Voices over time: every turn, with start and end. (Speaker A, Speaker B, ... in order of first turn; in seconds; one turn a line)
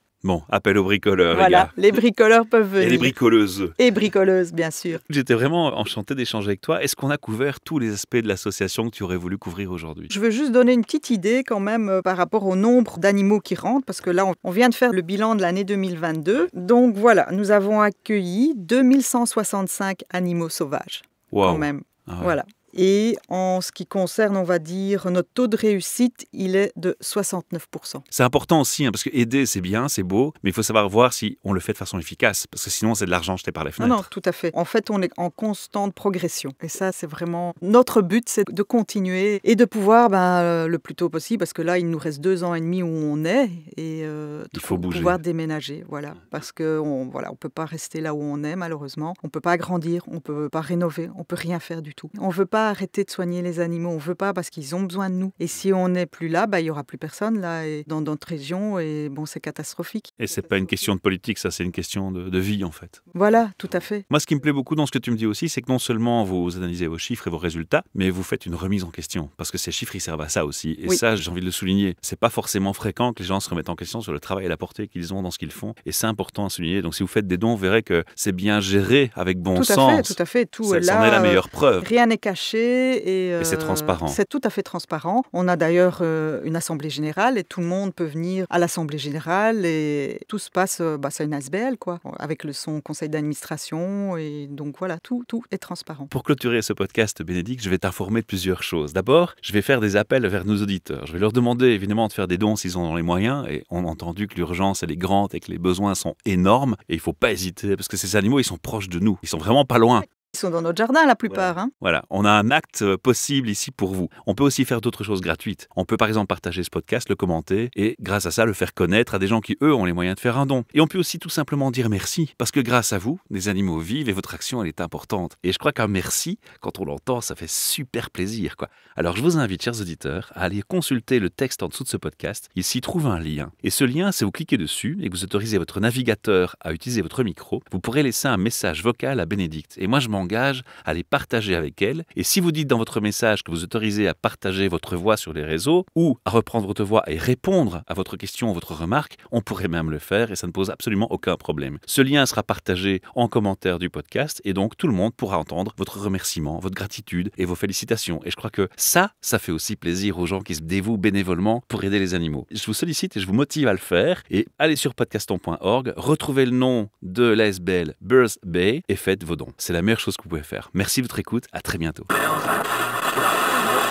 Speaker A: 0.2-1.7
Speaker B: 1.3-3.1
Speaker A: 2.8-3.8
Speaker B: 3.8-5.0
Speaker A: 5.0-10.1
Speaker B: 10.1-28.1
Speaker A: 21.3-22.4
Speaker A: 28.1-34.1
Speaker B: 33.8-60.5
Speaker A: 44.5-45.2
Speaker A: 60.2-63.1
Speaker B: 63.1-64.1
Speaker A: 64.1-81.9
Speaker B: 79.5-96.1
Speaker A: 83.4-84.2
Speaker A: 96.1-110.1
Speaker B: 110.1-111.7
Speaker A: 111.3-172.1